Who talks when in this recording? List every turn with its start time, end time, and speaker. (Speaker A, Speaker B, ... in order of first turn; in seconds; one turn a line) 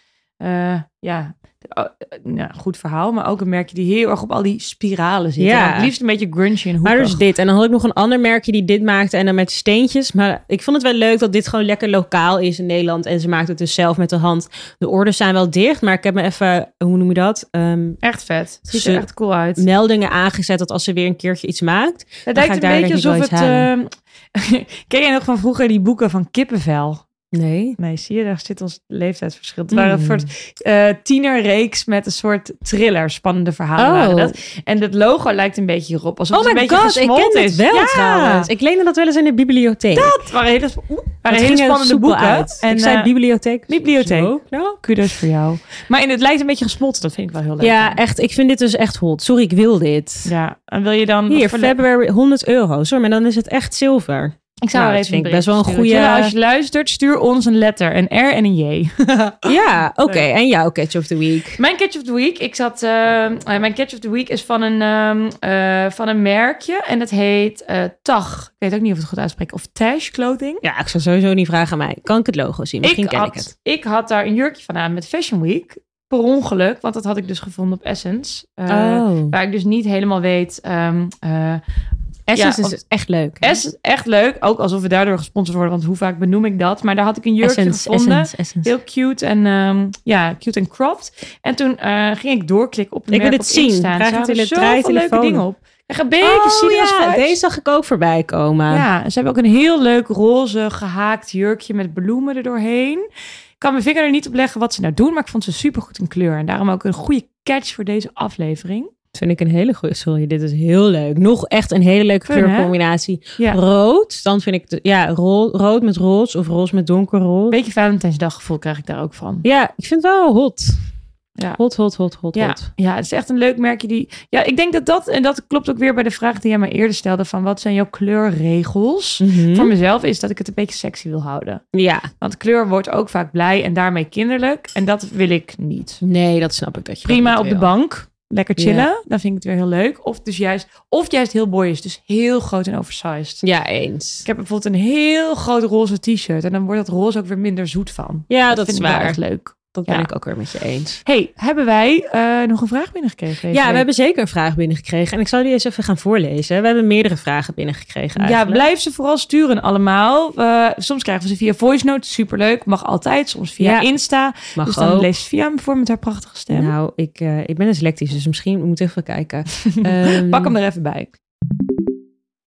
Speaker A: 0.4-7.2
Speaker B: 5.4-5.9
Speaker B: 6.8-18.0
Speaker A: 18.0-19.6
Speaker B: 18.7-23.7
Speaker A: 22.3-27.1
Speaker B: 27.3-27.8
Speaker A: 27.8-38.5
Speaker B: 29.7-30.3
Speaker B: 33.8-34.3
Speaker B: 36.3-40.2
Speaker A: 39.9-43.1
Speaker B: 41.3-44.8
Speaker A: 43.7-48.0
Speaker B: 47.6-50.3
Speaker A: 50.3-51.8
Speaker B: 51.3-56.3
Speaker A: 54.6-60.3
Speaker B: 59.5-61.6
Speaker A: 61.6-70.6
Speaker B: 70.6-73.5
Speaker A: 72.8-81.6
Speaker B: 78.7-79.3
Speaker B: 82.3-83.6
Speaker A: 82.3-82.8
Speaker A: 83.4-97.4
Speaker B: 87.4-88.7
Speaker B: 93.1-95.4
Speaker B: 96.2-98.9
Speaker A: 98.7-103.0
Speaker A: 103.6-108.9
Speaker B: 109.1-117.5
Speaker A: 112.3-112.7
Speaker A: 117.5-119.4
Speaker B: 119.4-121.0
Speaker B: 121.6-122.7
Speaker A: 122.3-131.7
Speaker B: 129.2-129.7
Speaker B: 131.7-132.1
Speaker A: 132.2-136.0
Speaker B: 136.0-137.7
Speaker A: 137.1-143.4
Speaker B: 138.6-138.9
Speaker B: 143.4-144.3
Speaker A: 144.2-150.1
Speaker B: 148.3-149.2
Speaker B: 149.7-151.0
Speaker A: 151.1-153.9
Speaker B: 153.5-158.6
Speaker A: 158.2-166.7
Speaker B: 163.6-163.9
Speaker B: 164.6-165.1
Speaker B: 166.5-170.6
Speaker A: 169.8-171.1